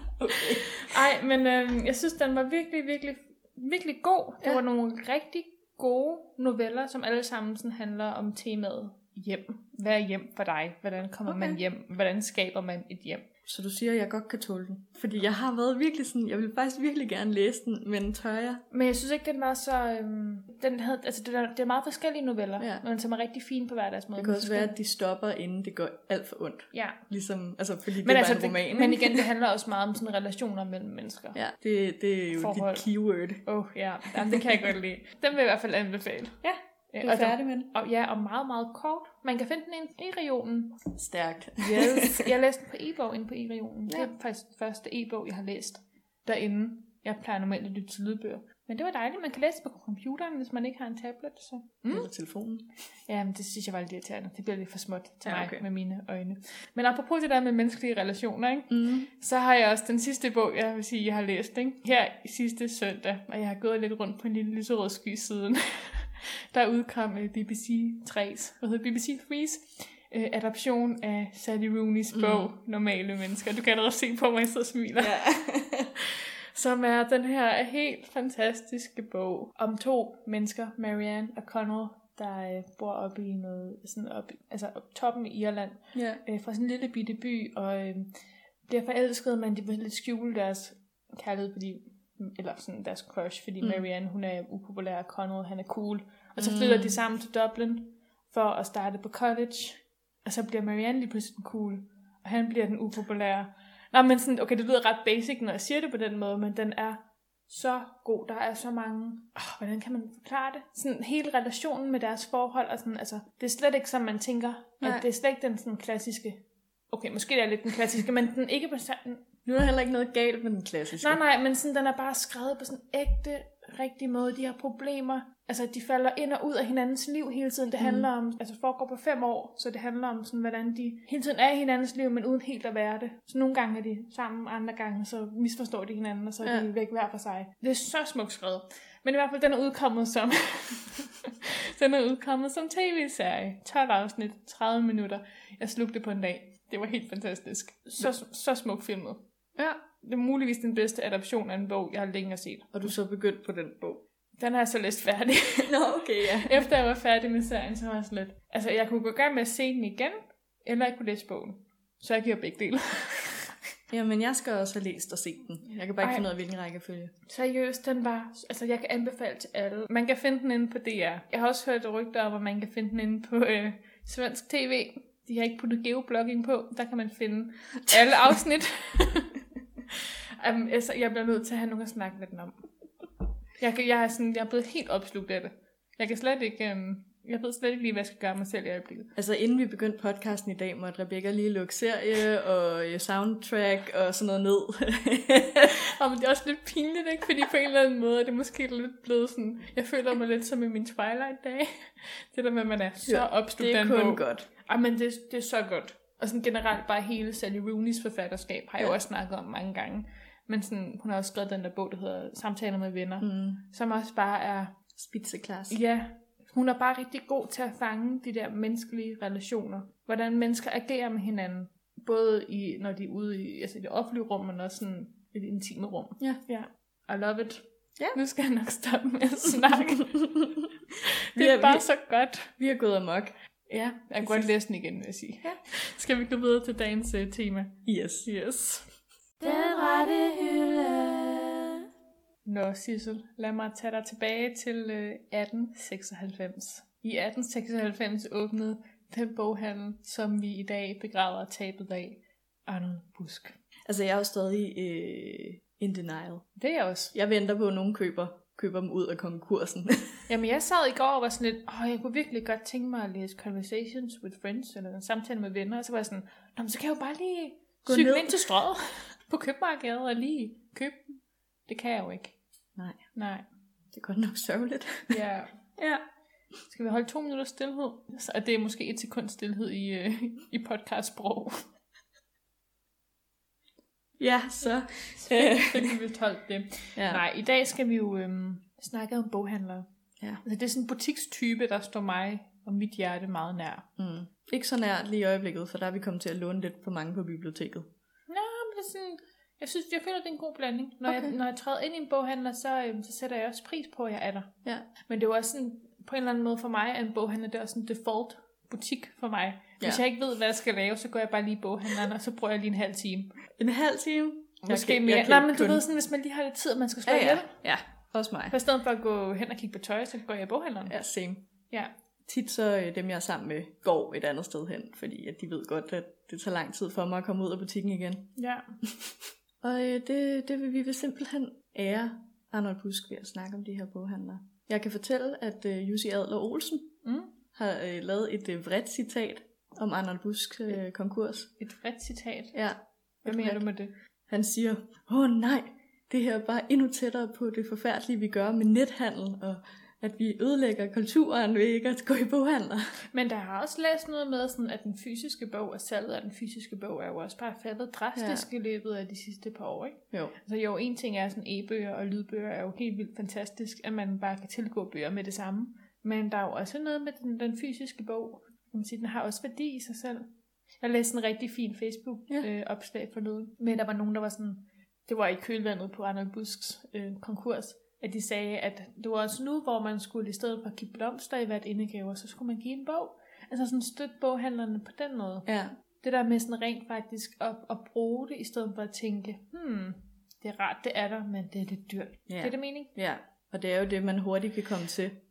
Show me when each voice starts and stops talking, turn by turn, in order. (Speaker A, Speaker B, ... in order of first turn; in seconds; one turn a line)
Speaker A: 0.2-0.8
Speaker B: 0.3-13.3
Speaker A: 11.3-11.6
Speaker A: 13.5-18.6
Speaker B: 18.7-24.8
Speaker A: 22.6-22.8
Speaker A: 24.2-29.2
Speaker B: 26.7-27.0
Speaker B: 28.0-31.4
Speaker A: 31.3-33.4
Speaker B: 32.3-32.9
Speaker B: 33.4-36.4
Speaker A: 36.4-37.7
Speaker B: 36.9-40.9
Speaker A: 40.9-42.3
Speaker B: 41.6-52.1
Speaker A: 51.9-52.6
Speaker B: 53.1-75.2
Speaker A: 55.2-55.6
Speaker A: 58.7-59.1
Speaker A: 72.1-72.5
Speaker A: 75.0-75.9
Speaker B: 76.1-88.1
Speaker A: 85.9-86.2
Speaker B: 88.7-119.2
Speaker A: 96.4-97.0
Speaker A: 119.5-121.2
Speaker B: 121.0-149.2
Speaker A: 127.8-128.1
Speaker A: 136.4-136.7
Speaker B: 150.0-152.9
Speaker A: 152.7-154.0
Speaker B: 154.4-163.6
Speaker A: 155.6-156.7
Speaker A: 163.9-167.1
Speaker B: 166.0-166.3
Speaker B: 167.3-179.3
Speaker B: 179.9-182.6
Speaker B: 183.6-189.1
Speaker A: 189.2-195.8
Speaker B: 195.8-214.7
Speaker A: 203.1-204.5
Speaker A: 213.2-213.6
Speaker A: 214.9-215.8
Speaker B: 215.7-230.2
Speaker A: 230.1-230.7
Speaker B: 231.0-232.5
Speaker A: 231.4-231.9
Speaker A: 232.6-234.5
Speaker B: 233.7-238.9
Speaker A: 237.8-238.3
Speaker C: 239.4-241.8
Speaker B: 242.4-253.6
Speaker A: 253.9-256.5
Speaker B: 256.6-257.1
Speaker A: 257.1-260.3
Speaker B: 260.3-272.4
Speaker A: 267.9-268.5
Speaker B: 273.1-273.4
Speaker A: 273.9-275.2
Speaker B: 275.1-275.5
Speaker A: 275.8-276.0
Speaker B: 276.7-281.6
Speaker A: 284.2-285.9
Speaker B: 285.2-289.9
Speaker A: 287.0-287.2
Speaker B: 290.4-293.9
Speaker A: 294.0-297.9
Speaker B: 298.3-304.5
Speaker A: 301.1-301.3
Speaker B: 305.1-313.3
Speaker A: 313.6-315.8
Speaker B: 314.6-317.5
Speaker A: 317.1-318.6
Speaker B: 318.5-320.9
Speaker A: 320.9-321.4
Speaker A: 322.3-328.3
Speaker B: 328.4-328.7
Speaker A: 328.8-336.9
Speaker B: 337.0-337.3
Speaker A: 337.6-341.5
Speaker B: 341.6-342.6
Speaker A: 342.5-343.6
Speaker B: 343.2-343.9
Speaker A: 344.3-353.0
Speaker B: 353.1-370.3
Speaker A: 358.2-358.5
Speaker B: 370.8-385.5
Speaker A: 385.5-385.7
Speaker B: 386.0-392.9
Speaker A: 392.3-395.2